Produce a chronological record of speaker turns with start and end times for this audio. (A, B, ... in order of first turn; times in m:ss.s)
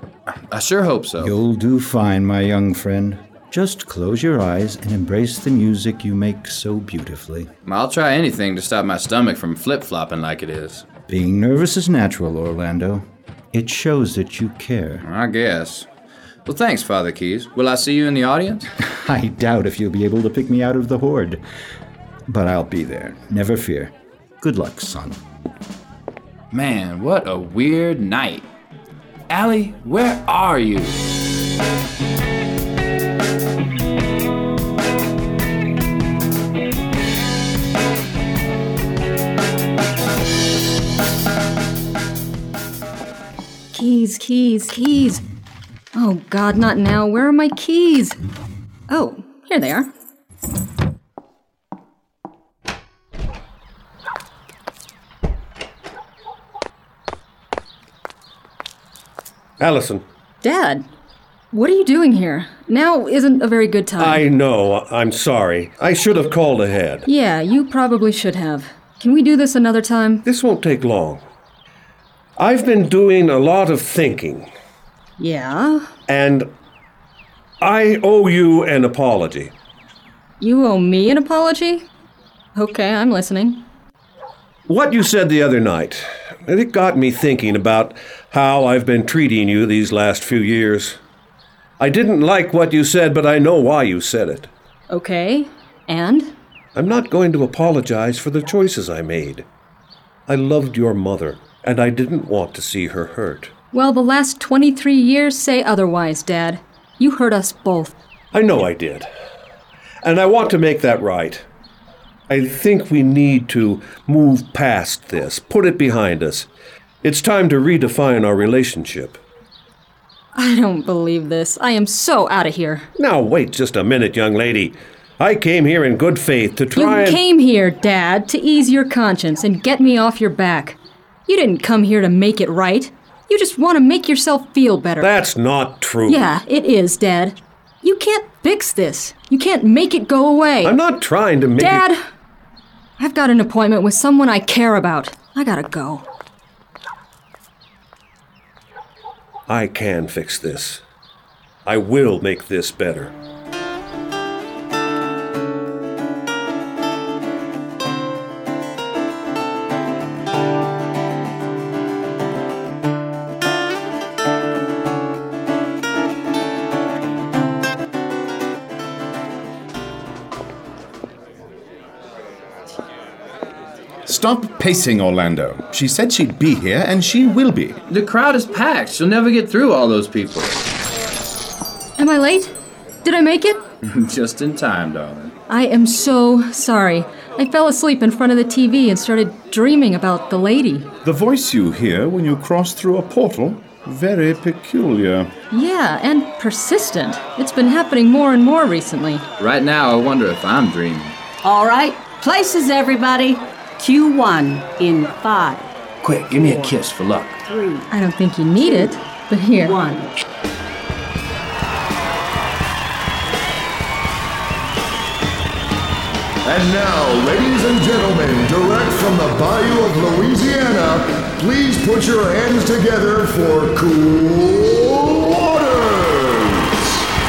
0:00.3-0:01.4 A
0:01.2-0:07.5 B
0:07.6-0:10.8 A
0:11.1-0:15.0 B
0:15.0-0:15.9 A
0:16.4-0:18.7 A
0:18.8-0:21.4 B
0:22.3-0:25.2 B
0:26.5-0:28.5 A
0:29.3-0:31.0 A
0:43.7-0:45.2 C
0:45.9-0:48.2 C
0:48.9-0:49.9 C
0:59.6-1:00.0 D
1:00.4-1:00.8 C
1:01.5-1:04.2 C
1:04.0-1:07.0 D
1:07.0-1:10.2 C
1:10.2-1:11.2 D
1:12.4-1:14.5 D
1:15.2-1:15.9 C
1:16.1-1:16.5 D
1:17.6-1:19.5 D
1:20.4-1:21.8 C
1:22.5-1:23.6 C
1:24.7-1:31.0 D
1:31.8-1:34.5 D
1:34.9-1:36.3 C
1:36.7-1:39.4 D
1:40.3-1:43.5 D
1:43.7-1:47.9 C
1:48.3-1:49.0 D
1:50.0-1:51.4 D
1:52.3-1:56.5 D
1:57.0-1:59.2 D
2:00.3-2:02.9 C
2:03.0-2:07.2 D
2:06.7-2:15.1 C
2:15.0-2:16.3 D
2:16.1-2:20.7 C
2:20.6-2:21.9 D
2:21.6-2:22.0 C
2:23.0-2:26.0 C
2:29.5-2:30.8 D
2:31.6-2:33.1 D
2:54.0-2:57.8 E
2:57.9-3:00.6 A
3:02.0-3:02.5 C
3:03.0-3:03.6 C
3:03.8-3:05.3 A
3:05.5-3:10.9 C
3:11.0-3:15.3 E
3:15.5-3:19.2 C
3:19.4-3:21.2 A
3:21.4-3:25.7 F
3:26.0-3:27.4 A
3:27.4-3:27.9 F
3:27.9-3:29.8 C
3:28.6-3:28.9 F
3:29.6-3:30.1 F
3:36.4-3:47.0 G